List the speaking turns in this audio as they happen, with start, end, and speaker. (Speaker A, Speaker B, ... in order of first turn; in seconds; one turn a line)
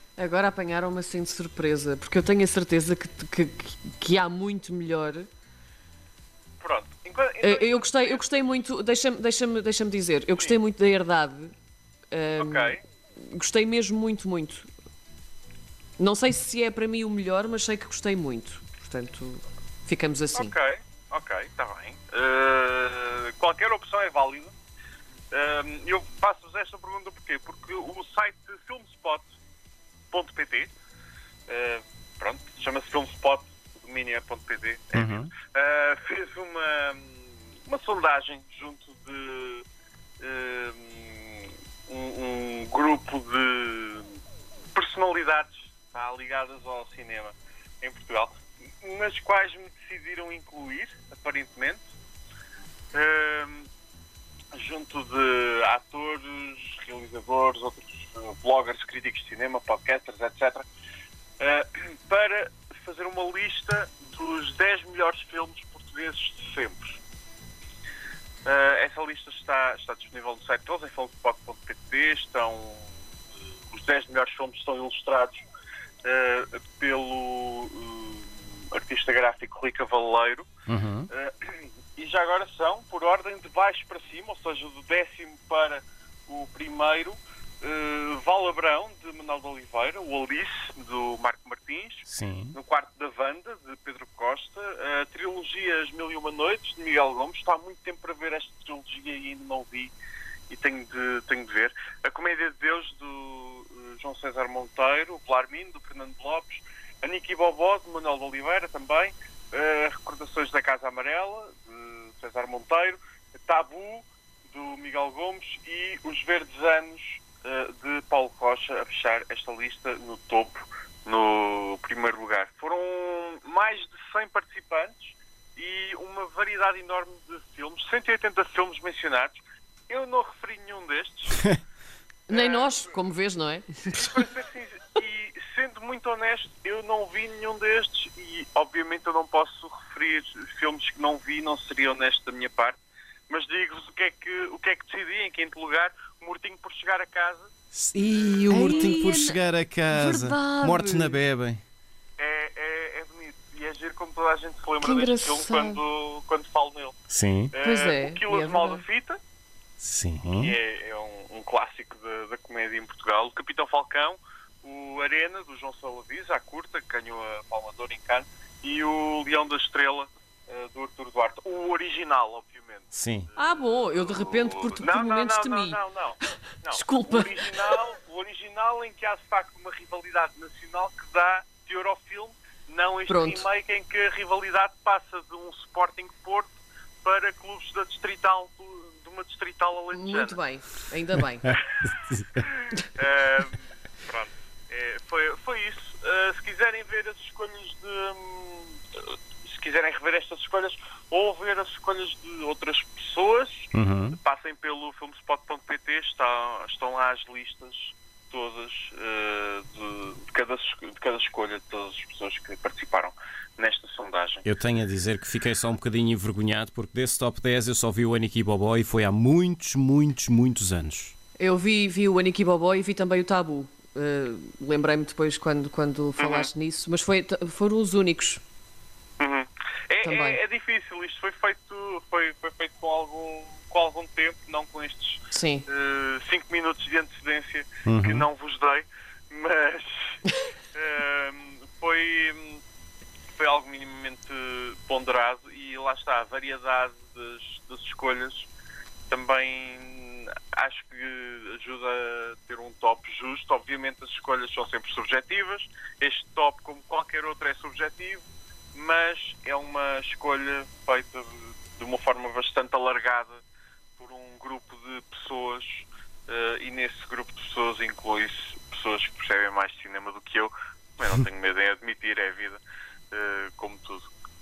Speaker A: 0.2-5.3
Speaker B: 6.6-8.2
Speaker A: 7.4-11.5
Speaker A: 12.1-14.7
Speaker B: 12.4-12.8
Speaker A: 16.0-20.5
Speaker B: 20.3-24.5
Speaker B: 25.3-29.3
Speaker B: 30.1-30.7
Speaker B: 31.5-39.6
Speaker C: 34.9-35.3
Speaker B: 40.2-44.1
Speaker B: 44.8-51.9
Speaker B: 52.9-53.7
Speaker B: 54.5-60.7
Speaker B: 61.4-67.0
Speaker B: 68.5-72.9
Speaker B: 73.7-75.4
Speaker B: 76.0-80.5
Speaker C: 80.7-81.1
Speaker B: 81.1-99.9
Speaker C: 92.1-92.6
Speaker B: 100.5-131.4
Speaker A: 132.3-134.2
Speaker B: 132.3-132.8
Speaker B: 133.9-147.5
Speaker C: 147.7-151.6
Speaker B: 148.1-148.8
Speaker A: 148.5-149.4
Speaker A: 149.9-151.2
Speaker B: 152.2-157.0
Speaker A: 154.8-155.8
Speaker C: 157.1-157.5
Speaker B: 157.5-159.2
Speaker A: 157.6-158.8
Speaker C: 159.8-160.6
Speaker B: 160.4-186.5
Speaker C: 172.9-173.3
Speaker A: 173.4-175.8
Speaker A: 176.7-177.8
Speaker A: 183.1-183.4
Speaker B: 187.0-190.4
Speaker A: 189.9-191.6
Speaker C: 191.8-192.4
Speaker B: 192.4-214.4
Speaker C: 203.7-204.2
Speaker C: 214.4-221.1
Speaker A: 221.4-228.4
Speaker B: 226.2-226.5
Speaker B: 229.2-240.2
Speaker A: 230.0-230.4
Speaker A: 235.3-235.7
Speaker C: 237.9-238.3
Speaker B: 240.7-242.6
Speaker B: 243.3-248.5
Speaker B: 249.1-263.4
Speaker B: 264.0-272.6
Speaker B: 273.1-274.1